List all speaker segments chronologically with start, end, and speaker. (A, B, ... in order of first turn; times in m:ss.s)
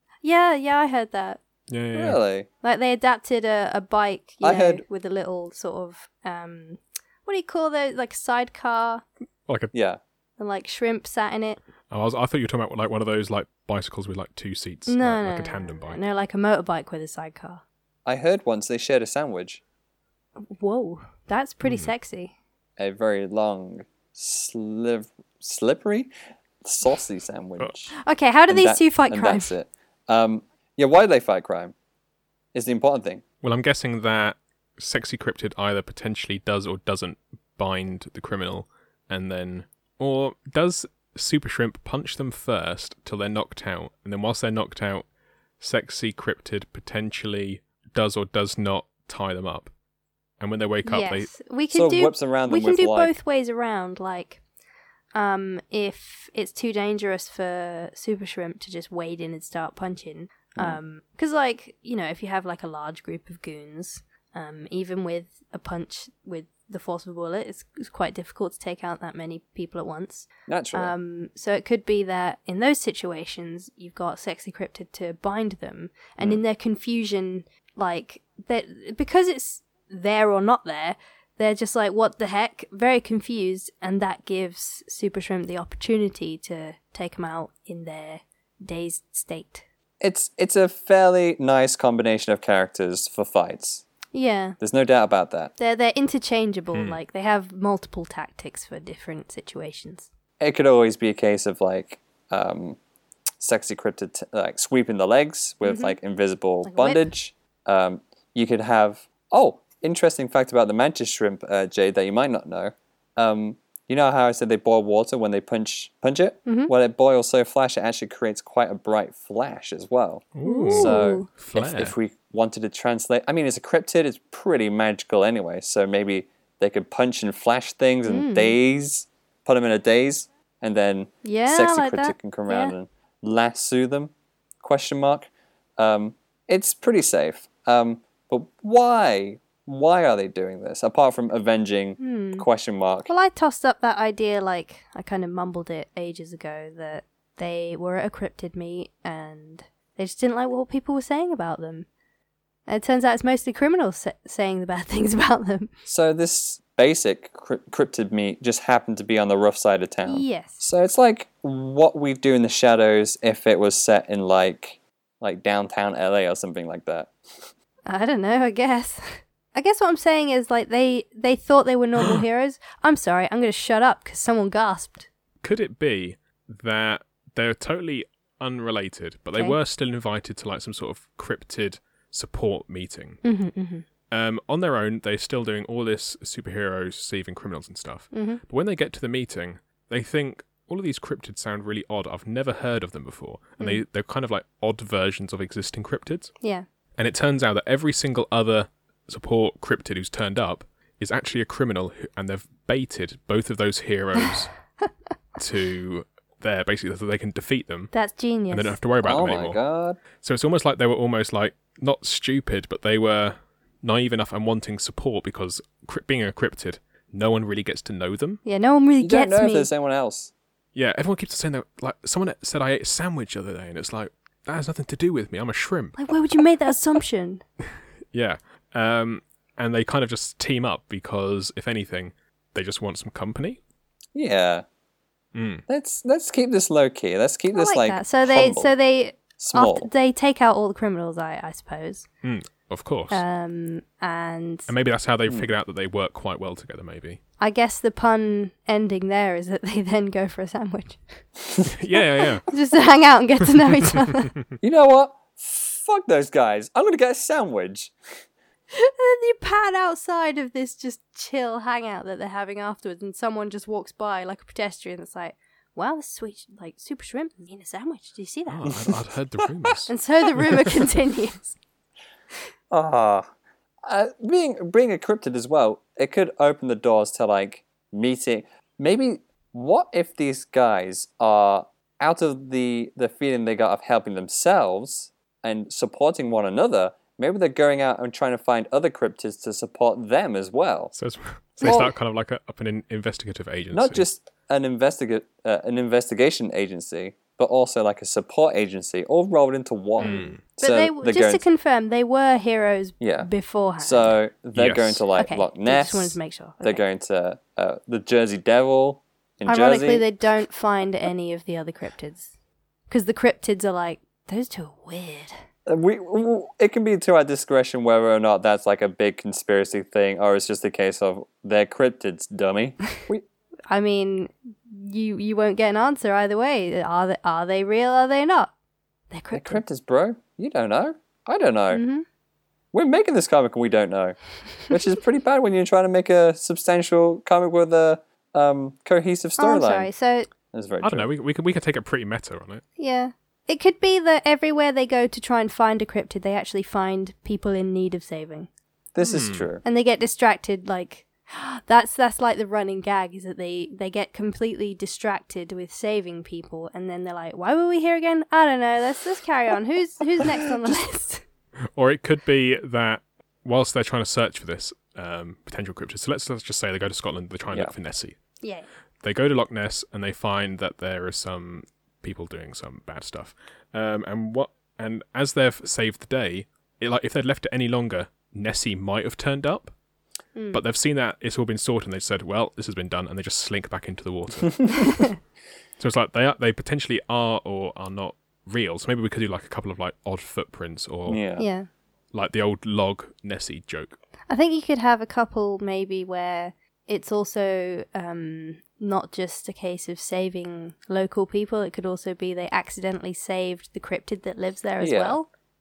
0:00.2-0:01.4 A
0:01.7-0:02.2 B
0:01.9-0:02.5 C
0:02.6-0:09.0 A
0:04.4-0:04.8 C
0:09.5-0:09.7 B
0:09.7-0:10.0 C
0:10.4-0:11.6 A
0:11.9-0:16.0 B
0:14.9-0:17.6 A
0:18.0-0:19.6 C
0:20.4-0:22.3 A
0:21.6-0:21.9 B
0:22.8-0:26.1 C
0:26.6-0:28.0 C
0:28.0-0:29.5 A
0:28.5-0:31.7 C
0:32.5-0:33.2 C
0:33.4-0:45.1 B
0:45.6-0:49.7 B
0:50.4-0:51.3 B
0:50.8-0:54.4 A
0:51.7-0:53.1 C
0:55.1-1:29.6 A
1:10.5-1:10.9 C
1:30.0-1:33.8 C
1:34.1-1:34.6 A
1:34.6-1:35.5 C
1:35.6-1:40.1 A
1:36.7-1:37.0 B
1:40.4-1:42.8 C
1:43.4-2:23.1 C
1:45.6-1:46.0 A
1:46.6-1:47.1 A
1:56.4-1:56.7 A
2:00.3-2:01.9 B
2:00.4-2:01.3 A
2:08.0-2:08.5 A
2:11.2-2:12.7 A
2:22.0-2:22.4 A
2:23.1-2:31.9 A
2:32.7-2:35.7 A
2:35.8-2:47.5 C
2:40.0-2:40.6 A
2:47.9-2:55.1 A
2:55.4-3:03.2 B
3:03.2-3:03.8 A
3:04.1-3:16.4 B
3:08.1-3:08.4 A
3:16.4-3:16.6 A
3:17.0-3:24.7 B
3:25.4-3:27.9 B
3:27.9-3:28.8 A
3:28.5-3:29.6 B
3:29.0-3:30.0 C
3:30.2-3:38.4 B
3:38.4-3:39.7 A
3:39.0-3:40.3 C
3:40.7-3:46.1 B
3:46.0-3:47.4 A
3:48.1-3:53.6 B
3:54.1-3:54.6 C
3:55.3-3:55.6 B
3:55.7-3:58.7 C
3:57.5-4:02.1 A
3:59.4-3:59.9 C
4:02.2-4:03.2 B
4:03.1-4:04.7 A
4:04.7-4:07.2 B
4:07.4-4:11.3 A
4:11.7-4:12.5 B
4:12.5-4:14.3 A
4:14.6-4:18.2 C
4:18.7-4:28.9 A
4:28.5-4:29.9 B
4:29.9-4:31.6 A
4:32.7-4:33.3 C
4:33.8-4:50.9 C
4:50.9-4:54.1 B
4:51.6-4:51.9 C
4:53.7-5:01.4 C
5:00.0-5:00.4 B
5:00.0-5:04.2 A
5:03.0-5:10.0 C
5:04.5-5:05.0 B
5:05.2-5:06.8 A
5:09.5-5:12.3 A
5:12.9-5:15.4 A
5:15.6-5:23.2 C
5:23.7-5:28.5 A
5:29.1-5:29.6 A
5:29.3-5:31.8 C
5:31.7-5:32.0 A
5:32.7-5:39.9 C
5:39.4-5:40.3 A
5:40.5-5:41.1 C
5:40.8-5:42.6 B
5:42.8-5:48.5 A
5:48.9-5:49.6 C
5:49.0-5:49.5 B
5:49.6-6:01.2 A
6:01.7-6:08.2 B
6:08.4-6:08.7 A
6:09.0-6:19.7 B
6:20.3-6:20.6 A
6:20.5-6:25.2 B
6:25.8-6:31.2 B
6:31.1-6:31.5 C
6:31.4-6:31.7 A
6:32.1-6:34.0 B
6:34.3-6:45.3 A
6:44.8-6:45.2 C